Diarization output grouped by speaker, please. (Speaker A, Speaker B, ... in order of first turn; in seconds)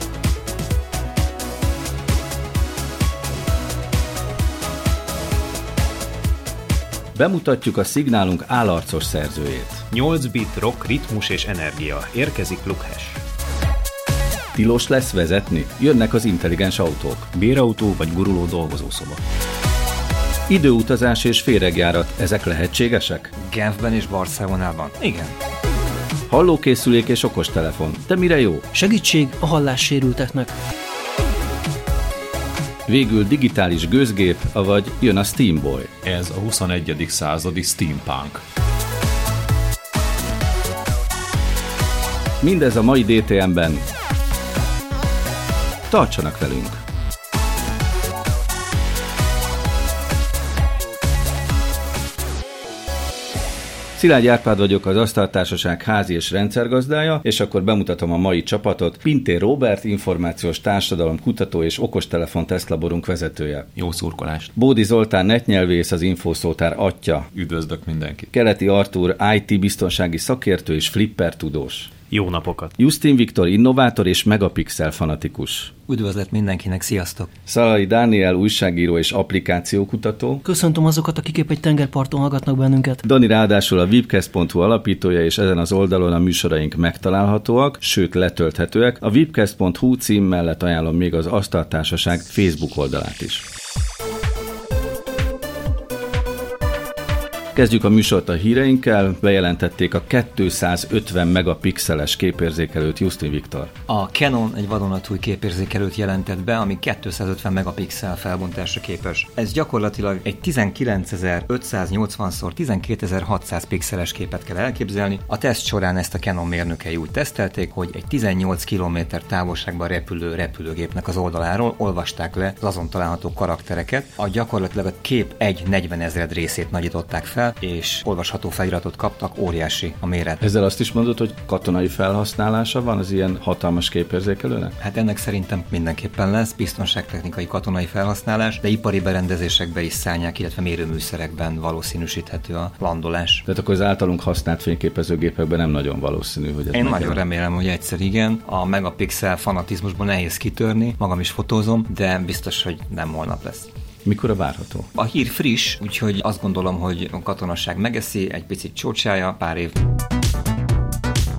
Speaker A: 7.2-9.8, 14.5-17.3, 20.5-23.3, 26.3-28.7, 32.9-35.9, 42.4-43.9, 45.9-46.8, 54.0-63.7, 64.5-67.3, 68.3-71.9, 72.8-75.7, 77.5-80.4, 83.0-93.5, 97.5-103.7, 130.4-134.8, 143.5-147.2, 154.1-154.9
Speaker B: 9.9-13.2, 72.1-72.8
Speaker C: 17.3-19.2, 63.8-64.5
Speaker D: 23.4-25.3, 75.9-77.3, 103.9-130.4, 134.8-143.4, 146.7-153.7, 154.9-159.8
Speaker E: 28.7-30.5, 80.4-83.0
Speaker F: 36.0-38.4, 67.3-68.3